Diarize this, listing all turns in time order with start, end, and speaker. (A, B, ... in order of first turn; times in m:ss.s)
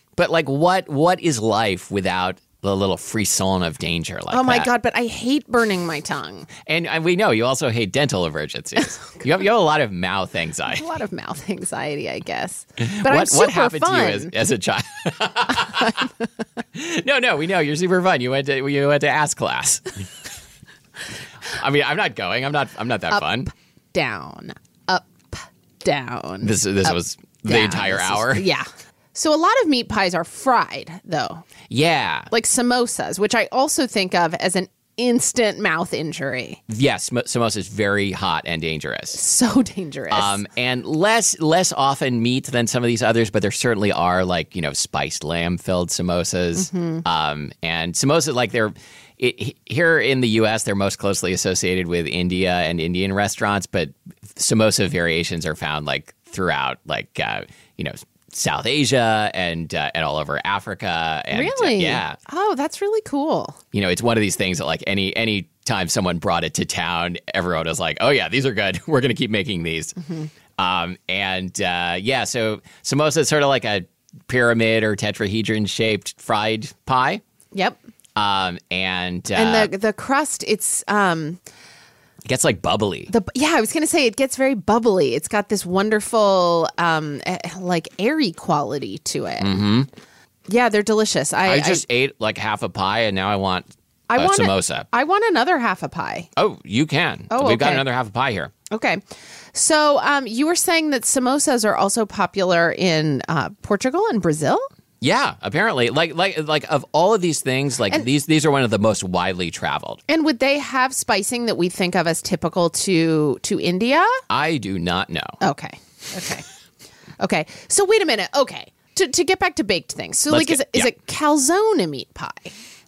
0:00.2-0:04.7 A
0:04.3-0:06.5 B
0:06.6-0:10.8 A
0:10.7-0:14.3 B
0:12.8-0:16.1 A
0:16.7-0:20.0 A
0:21.5-0:23.5 A
0:23.9-0:31.4 B
0:26.4-0:28.4 A
0:31.7-0:32.3 A
0:32.3-0:36.6 B
0:36.7-0:39.2 A
0:39.1-0:40.4 B
0:40.1-1:02.2 A
0:46.6-0:47.0 B
1:01.3-1:03.6 B
1:03.7-1:10.0 A
1:10.0-1:10.3 B
1:10.5-1:17.2 A
1:17.5-1:17.8 B
1:18.2-1:19.7 A
1:19.3-1:21.4 B
1:22.2-1:23.1 A
1:23.1-1:29.6 B
1:29.4-1:29.9 A
1:30.5-1:31.8 B
1:31.4-1:34.8 A
1:34.1-1:36.3 B
1:36.4-1:38.5 A
1:37.3-1:37.8 B
1:38.7-1:39.0 B
1:39.5-1:44.6 B
1:45.0-1:50.0 A
1:50.1-1:54.2 B
1:54.3-1:55.4 A
1:55.4-1:56.4 B
1:57.2-2:02.5 B
2:00.3-2:00.9 A